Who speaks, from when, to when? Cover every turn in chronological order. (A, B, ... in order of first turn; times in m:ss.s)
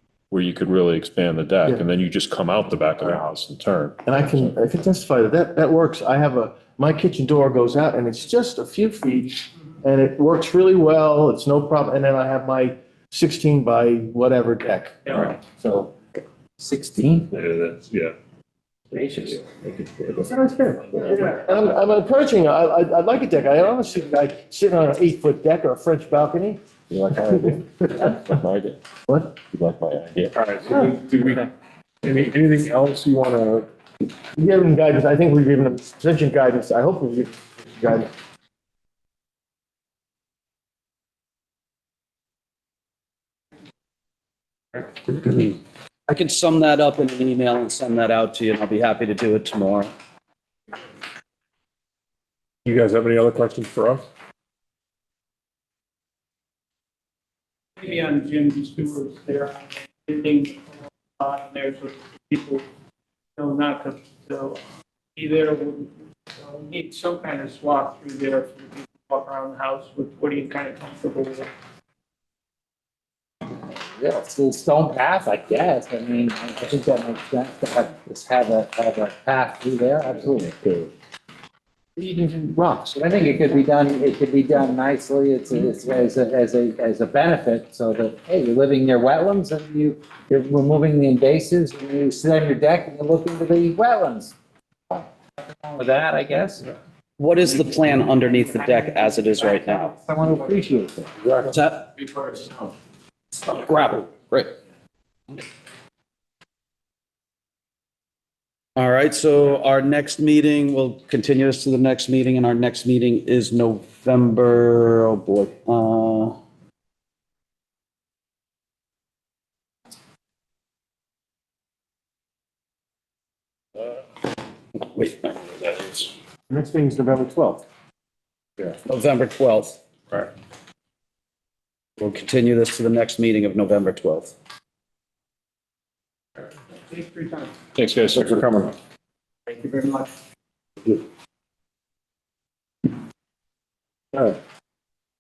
0:00.3-0:04.4 A
0:04.0-0:15.4 B
0:15.6-0:15.9 C
0:16.6-0:17.3 C
0:17.3-0:18.1 A
0:19.0-0:20.0 C
0:20.2-0:26.6 B
0:26.9-0:28.8 A
0:29.1-0:29.4 B
0:29.4-0:30.3 A
0:30.3-0:31.5 D
0:32.0-0:33.7 D
0:34.4-0:38.1 B
0:45.1-0:45.5 E
0:46.1-0:49.9 E
0:52.6-0:54.0 D
0:57.8-1:02.6 F
1:03.4-1:04.6 F
1:05.2-1:11.5 F
1:13.6-1:20.9 C
1:22.0-1:22.8 B
1:22.9-1:34.3 C
1:34.9-1:36.6 C
1:37.2-1:39.9 E
1:40.0-1:41.1 C
1:41.2-1:41.5 D
1:41.4-1:41.9 E
1:43.4-1:44.6 E
1:48.8-1:56.4 E
2:04.8-2:06.1 E
2:06.5-2:07.6 B
2:08.8-2:09.8 E
2:12.0-2:14.3 E
2:16.9-2:17.5 F
2:17.8-2:18.4 A
2:18.1-2:18.7 D
2:19.5-2:20.1 F